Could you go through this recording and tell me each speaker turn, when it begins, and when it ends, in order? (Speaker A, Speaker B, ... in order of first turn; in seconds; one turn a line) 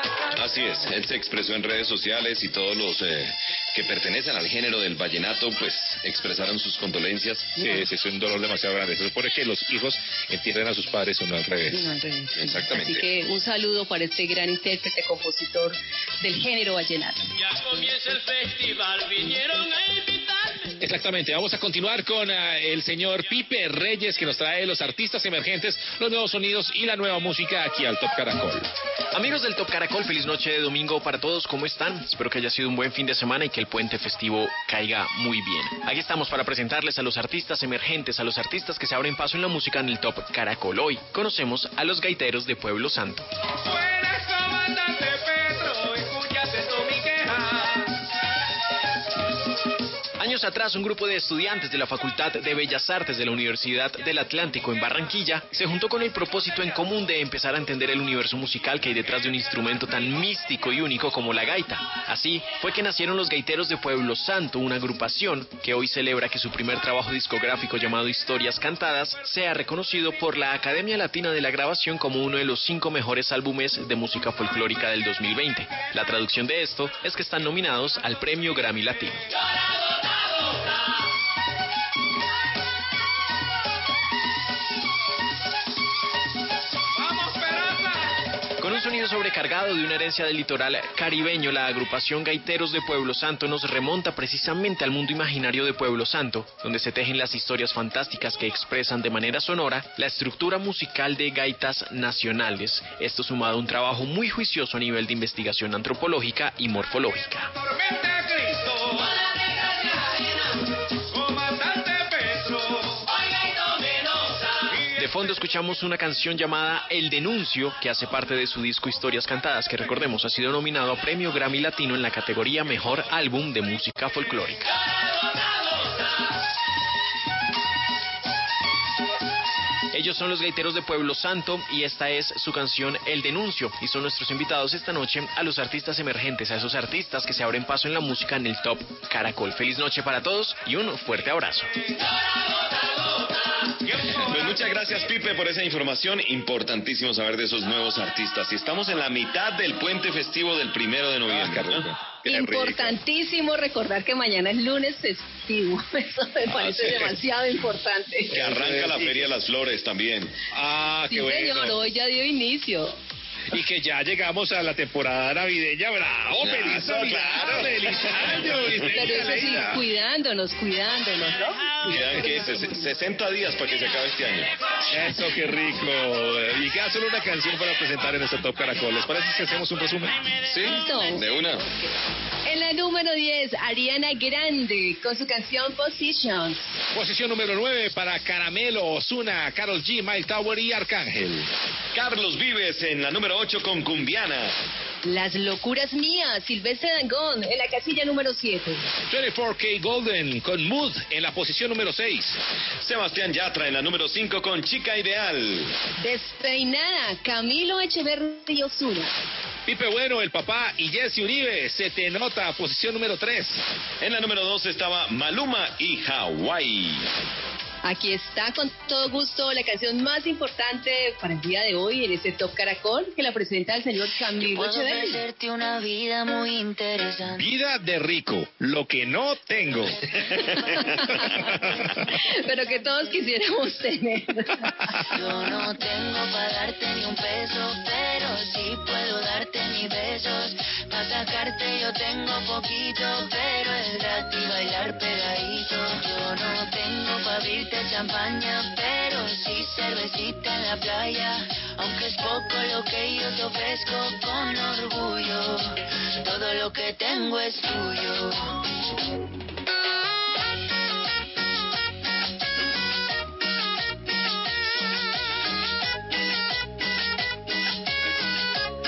Speaker A: 0.3-7.6
Speaker B: 7.6-11.9
Speaker C: 11.7-17.3
Speaker A: 12.4-13.1
Speaker D: 17.6-20.6
Speaker B: 20.8-28.7
Speaker E: 29.1-43.3
Speaker D: 43.6-47.9
Speaker E: 50.2-79.2
Speaker D: 87.0-88.2
Speaker E: 88.6-107.5
Speaker D: 107.6-110.1
Speaker D: 111.1-113.1
Speaker E: 115.0-124.7
Speaker E: 129.9-141.7
Speaker A: 144.0-152.9
Speaker B: 151.3-152.8
Speaker C: 152.3-158.3
Speaker B: 156.6-157.1
Speaker B: 158.3-159.3
Speaker A: 158.3-160.4
Speaker B: 160.5-161.8
Speaker C: 161.1-163.0
Speaker B: 163.5-169.8
Speaker A: 166.4-168.9
Speaker C: 168.8-172.9
Speaker A: 171.9-174.5
Speaker B: 174.9-180.3
Speaker A: 180.5-181.7
Speaker C: 180.6-181.9
Speaker C: 182.5-186.8
Speaker B: 186.9-191.5
Speaker A: 191.9-194.6
Speaker C: 195.1-198.9
Speaker B: 199.1-202.4
Speaker A: 202.8-205.7
Speaker C: 206.0-209.1
Speaker B: 209.7-213.6
Speaker A: 214.0-217.1
Speaker C: 217.8-225.2
Speaker F: 224.4-227.5
Speaker B: 227.4-232.1
Speaker C: 232.3-234.7
Speaker F: 235.1-258.5